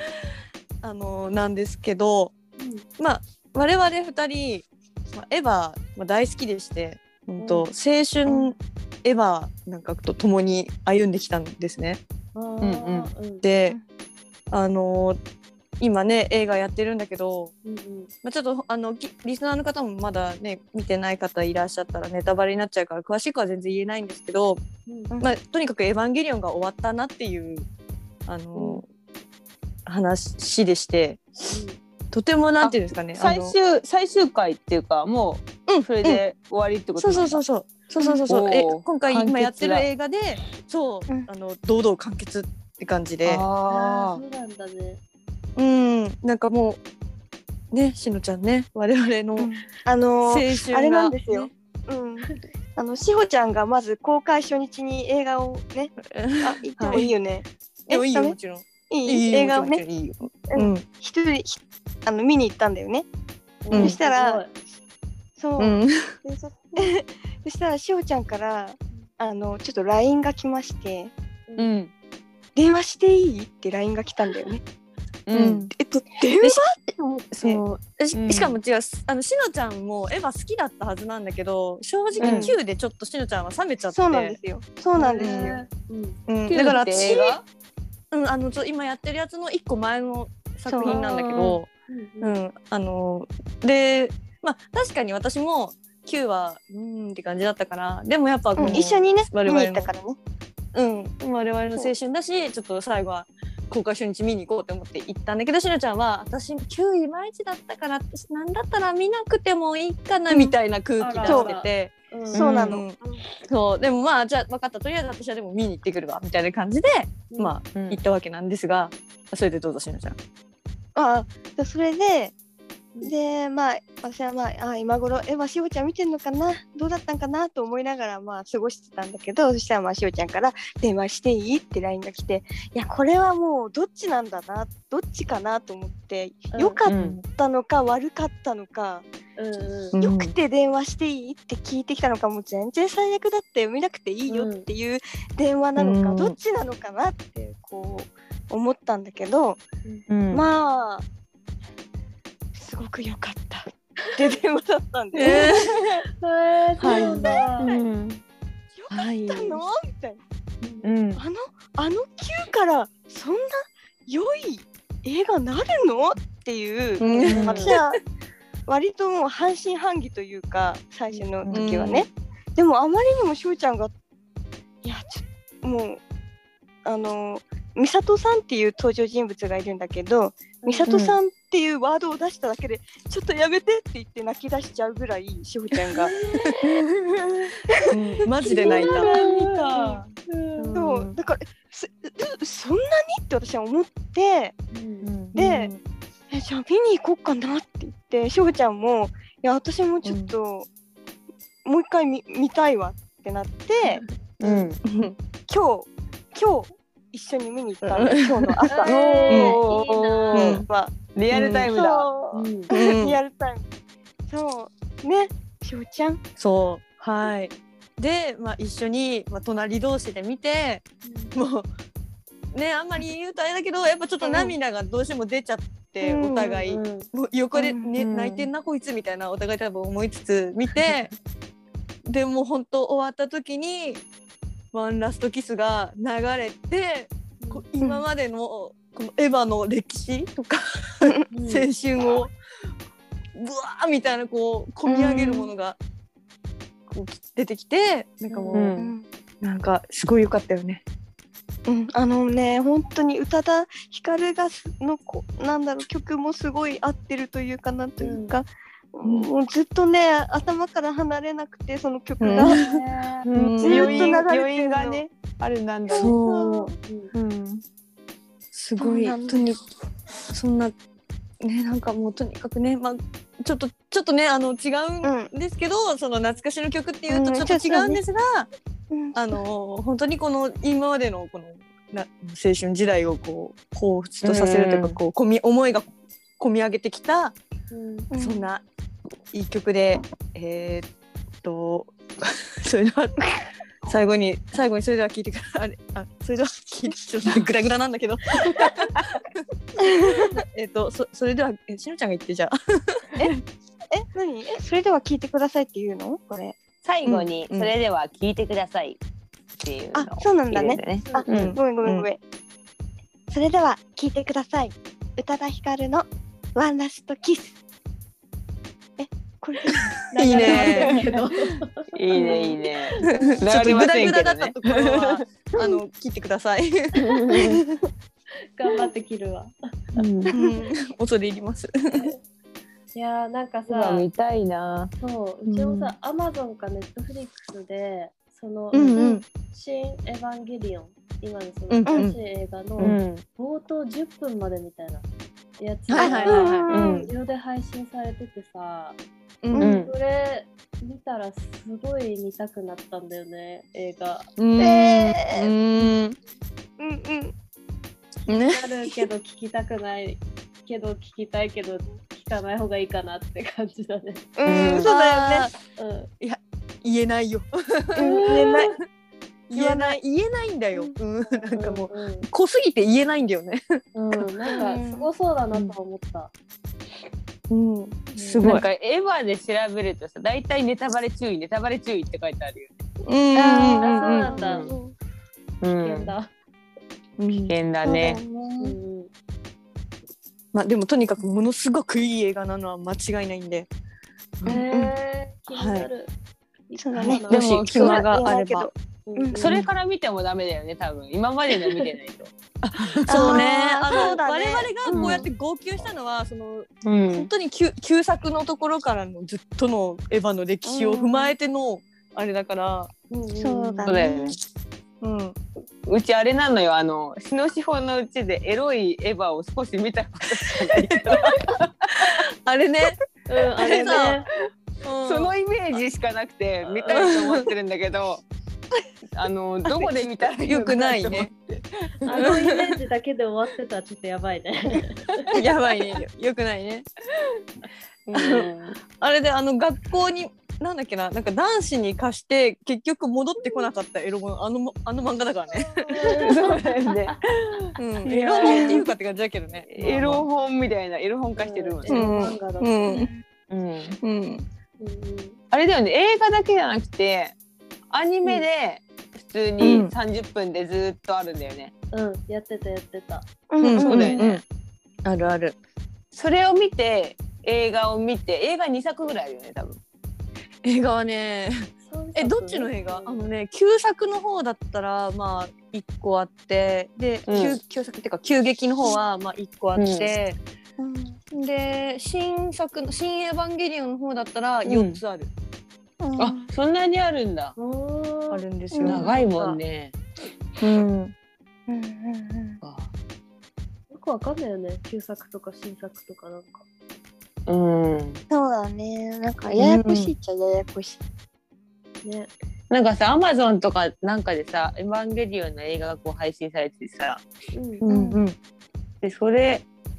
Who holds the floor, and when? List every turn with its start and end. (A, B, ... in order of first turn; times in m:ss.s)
0:00.8-0:02.3 A
0:02.6-0:02.9 B
0:03.0-0:12.0 A
0:07.4-0:07.7 B
0:12.4-0:13.4 B
0:12.6-0:13.1 C
0:13.4-0:13.8 A
0:14.5-0:15.2 A
0:15.8-0:17.5 A
0:17.6-0:18.1 B
0:18.2-0:24.6 A
0:24.9-0:25.1 B
0:25.2-0:27.7 A
0:28.3-0:28.8 A
0:29.9-0:31.5 A
0:31.5-0:31.8 B
0:32.1-0:33.6 A
0:32.6-0:37.4 C
0:35.7-0:36.2 A
0:37.0-0:43.5 A
0:38.0-0:38.3 D
0:38.3-0:39.9 C
0:43.2-0:44.2 C
0:43.7-0:45.0 B
0:45.6-0:46.8 A
0:47.7-0:49.5 A
0:49.4-0:58.4 D
0:50.2-0:51.5 A
0:56.1-0:57.1 A
0:57.9-1:00.8 A
0:58.9-0:59.8 D
1:00.5-1:03.1 D
1:03.6-1:04.5 B
1:03.7-1:04.4 D
1:03.7-1:04.0 A
1:05.4-1:11.1 D
1:05.6-1:06.0 A
1:11.6-1:11.9 C
1:12.6-1:14.6 D
1:15.3-1:15.6 C
1:15.3-1:15.7 A
1:15.7-1:16.8 D
1:16.4-1:24.4 A
1:18.1-1:18.6 C
1:22.2-1:22.6 D
1:22.2-1:22.5 C
1:23.9-1:25.6 D
1:25.0-1:26.2 B
1:25.2-1:25.6 A
1:26.3-1:27.4 A
1:26.5-1:27.4 C
1:28.1-1:31.7 A
1:30.7-1:31.0 D
1:31.9-1:32.4 B
1:32.2-1:39.9 A
1:38.6-1:40.2 D
1:40.8-1:51.9 A
1:50.3-1:50.6 D
1:51.0-1:52.4 B
1:51.2-1:51.5 D
1:52.3-1:52.7 C
1:52.3-1:52.9 D
1:52.4-2:00.2 A
1:57.7-1:58.0 C
2:01.0-2:02.3 D
2:03.0-2:19.1 D
2:16.5-2:16.8 B
2:16.9-2:17.2 C
2:19.4-2:20.0 B
2:19.9-2:20.3 A
2:20.0-2:29.6 D
2:24.3-2:24.7 B
2:25.8-2:26.4 A
2:30.1-2:30.5 C
2:30.3-2:31.1 D
2:32.5-2:36.0 D
2:35.1-2:36.0 A
2:36.2-2:37.7 B
2:36.8-2:38.2 C
2:36.8-2:37.8 D
2:38.8-2:40.2 D
2:38.9-2:39.6 A
2:40.6-2:40.9 B
2:40.8-2:41.2 C
2:41.2-2:48.0 D
2:47.0-2:47.7 B
2:47.0-2:47.9 A
2:48.7-2:53.9 D
2:51.4-2:51.9 C
2:51.5-2:52.0 A
2:54.8-2:56.0 D
2:56.8-3:06.2 D
3:00.6-3:00.9 B
3:00.9-3:01.2 C
3:06.0-3:06.4 B
3:07.9-3:10.0 A
3:08.5-3:09.0 D
3:08.7-3:10.8 B
3:08.9-3:10.0 C
3:10.6-3:11.2 A
3:10.7-3:14.6 D
3:14.7-3:15.1 B
3:15.0-3:15.4 C
3:15.4-3:15.7 D
3:15.4-3:15.8 A
3:16.3-3:20.7 D
3:20.0-3:20.3 A
3:21.6-3:24.8 D
3:24.4-3:24.8 C
3:24.8-3:25.1 A
3:25.5-3:29.0 D
3:27.8-3:28.6 A
3:28.7-3:30.6 B
3:28.9-3:32.1 C
3:29.3-3:29.6 A
3:30.3-3:30.7 A
3:30.4-3:31.0 D
3:31.3-3:31.7 A
3:31.7-3:33.6 D
3:32.3-3:32.7 B
3:32.7-3:33.2 A
3:34.3-3:36.2 D
3:36.4-3:41.7 A
3:41.0-3:41.3 B
3:42.5-3:51.1 A
3:44.2-3:44.6 D
3:46.0-3:46.6 D
3:46.6-3:47.1 B
3:47.6-3:47.9 D
3:48.0-3:48.5 C
3:52.1-3:54.0 A
3:54.7-4:02.3 A
4:01.3-4:01.7 B
4:03.4-4:05.8 A
4:04.9-4:05.5 D
4:06.9-4:08.8 A
4:08.3-4:08.7 B
4:08.5-4:08.9 C
4:08.8-4:09.1 D
4:09.4-4:10.8 A
4:11.7-4:22.6 D
4:18.0-4:18.4 B
4:19.0-4:19.3 A
4:22.2-4:22.8 A
4:23.2-4:26.5 C
4:23.3-4:24.2 A
4:23.6-4:25.0 D
4:25.9-4:26.7 D
4:26.0-4:26.7 A
4:26.9-4:27.1 B
4:27.2-4:27.5 C
4:28.5-4:29.6 A
4:28.8-4:29.6 D
4:30.3-4:30.7 A
4:31.4-4:38.5 A
4:35.0-4:35.3 D
4:37.1-4:38.0 D
4:38.9-4:39.4 D
4:39.1-4:45.9 A
4:44.2-4:45.0 C
4:46.4-4:47.4 A
4:47.7-4:48.1 B
4:48.1-4:48.5 D
4:48.2-4:48.6 A
4:49.3-4:50.9 A
4:51.4-4:53.3 A
4:53.8-5:03.4 A
4:59.8-5:00.4 D
5:03.9-5:06.6 D
5:06.8-5:09.0 C
5:07.0-5:07.7 A
5:09.6-5:11.6 C
5:09.9-5:12.2 D
5:11.0-5:11.3 B
5:11.3-5:12.1 A
5:13.3-5:17.6 D
5:19.0-5:20.7 D
5:20.1-5:23.4 B
5:20.2-5:21.0 A
5:21.9-5:25.8 C
5:23.0-5:27.6 A
5:27.0-5:27.6 C
5:28.6-5:30.0 B
5:30.0-5:30.3 C
5:30.3-5:32.1 A
5:30.3-5:30.7 D
5:32.9-5:34.1 B
5:33.7-5:34.9 C
5:35.0-5:45.0 B
5:35.5-5:35.9 A
5:38.7-5:39.2 A
5:38.8-5:39.2 D
5:41.7-5:42.2 A
5:42.8-5:43.2 C
5:45.6-5:49.0 B
5:45.9-5:46.7 A
5:45.9-5:46.9 D
5:46.7-5:47.1 C
5:49.4-5:49.8 A
5:49.5-5:49.8 D
5:49.6-5:49.9 C
5:49.7-5:54.3 B
5:54.4-5:56.2 A
5:54.6-5:55.5 D
5:56.8-5:57.3 D
5:58.3-6:04.3 B
5:58.3-5:59.0 A
6:04.4-6:05.5 D
6:04.4-6:04.9 C
6:04.8-6:05.6 A
6:05.8-6:06.1 B
6:06.2-6:08.5 A
6:08.0-6:08.8 D
6:08.0-6:08.8 B
6:09.5-6:14.6 A
6:09.5-6:10.0 D
6:11.5-6:12.3 B
6:14.0-6:16.3 B
6:14.5-6:15.1 D
6:17.5-6:18.6 A
6:18.1-6:18.6 B
6:18.4-6:22.7 C
6:23.0-6:24.3 A
6:23.8-6:24.7 C
6:23.8-6:24.7 B
6:24.6-6:24.9 D
6:25.6-6:26.1 C
6:25.7-6:26.3 B
6:27.2-6:27.5 A
6:27.4-6:28.2 C
6:27.8-6:28.8 D
6:28.6-6:29.1 B
6:30.5-6:33.7 A
6:34.5-6:36.1 B
6:35.5-6:35.9 A
6:36.7-6:37.8 B
6:36.8-6:39.6 D
6:37.0-6:38.7 A
6:37.3-6:38.0 C
6:39.1-6:39.6 B
6:39.3-6:43.4 C
6:42.6-6:52.9 A
6:43.1-6:45.3 D
6:44.9-6:45.3 C
6:46.8-6:47.3 C
6:50.7-6:51.3 D
6:53.1-6:54.0 B
6:53.4-6:54.4 D
6:53.8-6:54.4 C
6:55.0-6:55.4 A
6:55.8-7:02.2 C
7:00.5-7:03.0 A
7:03.3-7:04.3 B
7:03.7-7:04.2 A
7:04.8-7:05.3 A
7:05.0-7:08.2 C
7:06.6-7:07.2 B
7:07.0-7:07.5 A
7:09.1-7:12.4 C
7:09.7-7:11.3 A
7:12.0-7:15.3 B
7:12.1-7:12.7 A
7:15.3-7:16.9 A
7:18.1-7:18.8 C
7:18.1-7:25.9 A
7:25.9-7:27.0 B
7:26.0-7:28.8 C
7:27.8-7:30.3 A
7:29.7-7:32.1 C
7:31.4-7:33.1 B
7:31.9-7:33.1 A
7:33.5-7:34.0 C
7:34.0-7:34.4 A
7:34.8-7:35.4 B
7:35.5-7:37.4 C
7:37.9-7:41.7 C
7:39.6-7:39.9 A
7:41.9-7:43.3 B
7:43.5-7:44.3 D
7:43.6-7:44.4 A
7:43.8-7:44.4 C
7:45.0-7:45.6 A
7:46.1-7:49.8 C
7:50.6-8:00.4 A
7:51.9-7:53.3 B
7:57.3-7:57.6 C
7:59.8-8:00.1 C
8:00.8-8:01.2 D
8:01.3-8:05.3 A
8:04.6-8:05.0 C
8:06.0-8:06.5 D
8:06.2-8:07.6 C
8:07.6-8:08.4 B
8:08.3-8:09.1 A
8:08.7-8:09.0 D
8:08.8-8:10.0 C
8:08.9-8:09.6 B
8:10.6-8:11.1 A
8:11.7-8:12.6 D
8:12.6-8:12.9 C
8:13.9-8:16.6 B
8:17.5-8:18.2 C
8:18.3-8:21.0 D
8:19.6-8:20.1 A
8:22.0-8:22.3 B
8:22.7-8:27.2 C
8:27.5-8:27.9 B
8:27.8-8:28.4 A
8:27.9-8:28.2 D
8:29.0-8:29.7 C